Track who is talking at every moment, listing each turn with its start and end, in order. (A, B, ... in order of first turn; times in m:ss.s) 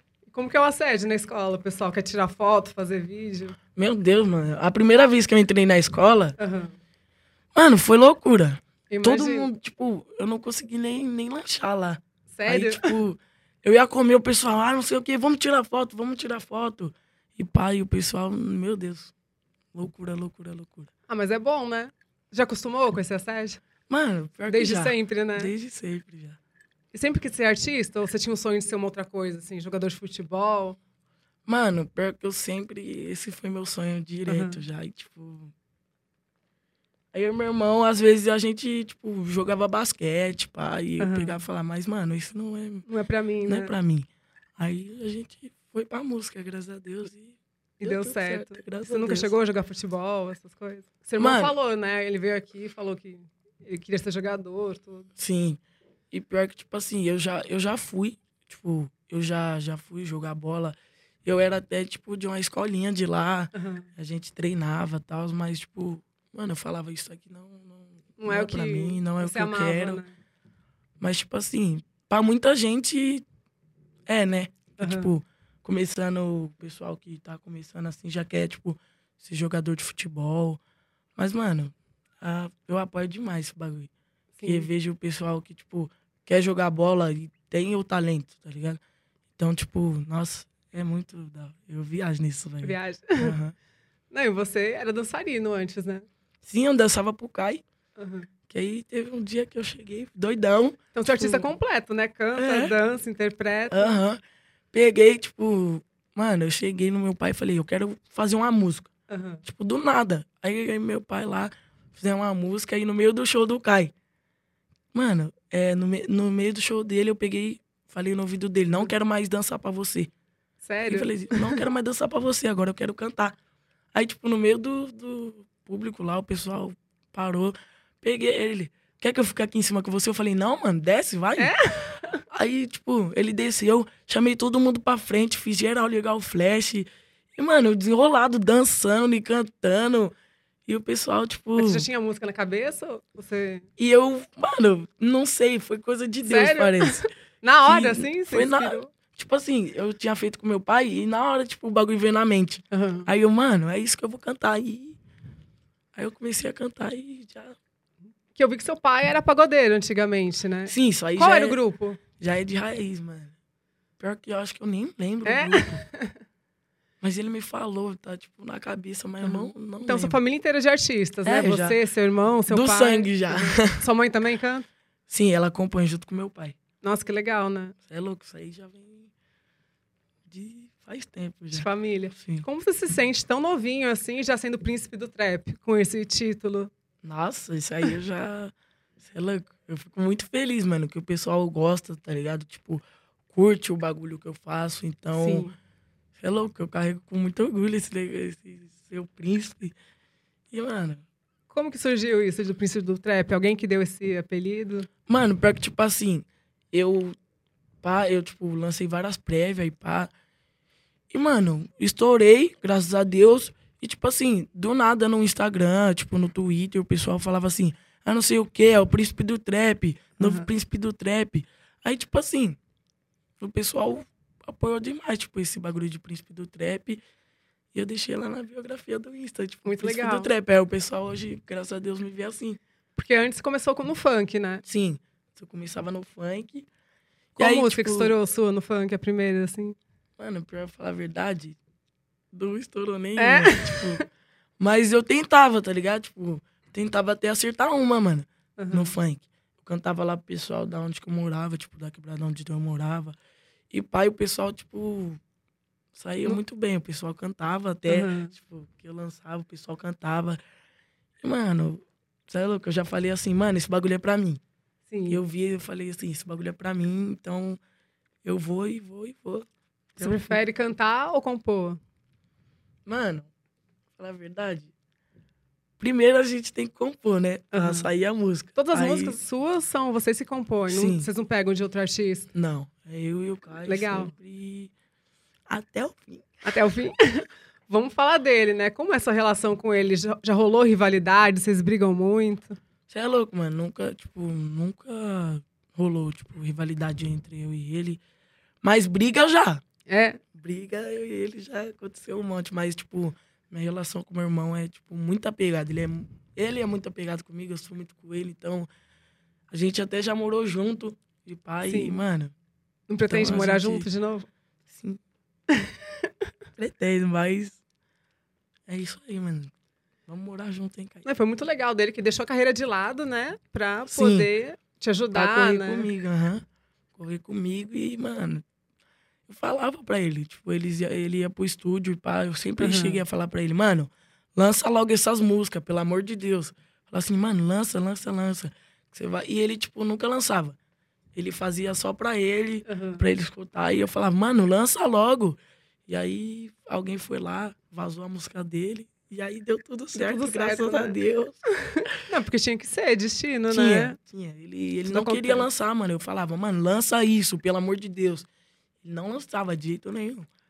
0:00.3-0:03.6 A
0:03.8-0:06.4 B
0:06.4-0:06.7 A
0:07.5-0:19.1 B
0:08.9-0:09.5 A
0:12.3-0:12.9 A
0:19.7-0:20.9 B
0:21.1-0:23.6 A
0:23.9-0:26.4 B
0:24.5-0:25.5 A
0:26.9-0:30.8 A
0:31.4-0:35.5 B
0:34.3-0:34.6 A
0:37.1-0:42.8 B
0:41.0-0:41.4 A
0:42.8-0:43.7 A
0:43.5-0:49.3 B
0:47.8-0:55.1 A
0:51.2-0:51.5 B
0:55.2-1:10.0 B
1:03.5-1:03.9 A
1:08.2-1:10.1 A
1:11.0-1:13.2 B
1:14.1-1:20.6 B
1:14.8-1:15.1 A
1:21.2-1:23.9 B
1:24.4-1:24.7 A
1:24.4-1:28.8 B
1:29.4-1:33.5 B
1:32.6-1:33.3 A
1:34.1-1:36.0 A
1:36.4-1:37.6 B
1:38.0-1:38.3 A
1:38.5-1:41.5 B
1:40.9-1:43.9 A
1:42.4-1:42.7 B
1:43.7-1:44.2 B
1:44.7-1:48.9 B
1:49.1-1:49.4 A
1:49.4-1:53.9 B
1:54.9-2:00.1 B
2:00.6-2:01.6 A
2:00.9-2:03.4 B
2:03.9-2:11.6 B
2:11.4-2:12.2 A
2:12.3-2:20.1 B
2:20.6-2:21.8 B
2:21.6-2:23.6 A
2:23.8-2:27.1 B
2:26.2-2:28.9 A
2:27.7-2:35.0 B
2:32.7-2:33.1 A
2:35.9-2:37.6 B
2:38.3-2:42.0 A
2:40.7-2:41.6 B
2:42.2-2:43.3 B
2:44.0-2:45.8 B
2:45.2-2:46.2 A
2:47.0-2:50.2 B
2:49.2-2:54.7 A
2:51.2-2:51.8 B
2:52.5-2:53.8 B
2:55.1-2:56.6 B
2:56.8-2:57.8 A
2:57.8-2:59.1 B
3:00.3-3:02.4 B
3:01.5-3:06.7 A
3:07.0-3:15.5 B
3:15.2-3:15.5 A
3:16.2-3:19.7 B
3:20.5-3:21.0 B
3:21.5-3:24.9 A
3:25.1-3:27.2 B
3:27.8-3:30.1 B
3:31.1-3:42.6 B
3:40.2-3:40.5 A
3:43.4-3:47.0 B
3:47.7-3:52.6 B
3:49.6-3:50.3 A
3:53.0-3:54.6 A
3:54.6-3:56.7 B
3:57.4-3:59.8 A
3:57.4-3:58.2 B
4:00.2-4:01.6 B
4:02.3-4:04.0 B
4:03.2-4:04.0 A
4:04.6-4:13.2 B
4:08.6-4:08.9 A
4:13.7-4:15.2 B
4:15.9-4:20.4 B
4:17.9-4:18.3 A
4:21.2-4:24.4 B
4:24.9-4:25.2 A
4:25.1-4:27.6 B
4:28.2-4:30.4 B
4:30.0-4:31.8 A
4:32.8-4:33.3 B
4:34.0-4:34.7 B
4:35.8-4:39.2 B
4:37.5-4:37.9 A
4:38.6-4:42.3 A
4:40.7-4:41.1 B
4:42.3-4:44.7 B
4:43.6-4:44.1 A
4:45.5-4:46.4 B
4:46.4-4:52.6 A
4:52.9-4:58.0 B
4:58.6-4:59.6 B
4:59.9-5:00.2 A
5:00.3-5:08.7 B
5:09.5-5:12.3 B
5:11.6-5:12.0 A
5:12.9-5:14.3 A
5:13.1-5:13.9 B
5:14.7-5:15.0 B
5:15.5-5:16.1 A
5:16.6-5:17.6 B
5:18.7-5:19.5 B
5:20.1-5:21.0 B
5:21.0-5:25.9 A
5:23.9-5:24.3 B
5:25.1-5:28.4 B
5:29.3-5:40.6 B
5:32.6-5:33.0 A
5:41.1-5:51.9 B
5:42.6-5:43.0 A
5:49.9-5:51.0 A
5:51.7-5:54.0 A
5:53.5-5:58.3 B
5:54.8-5:55.5 A
5:58.8-6:00.3 B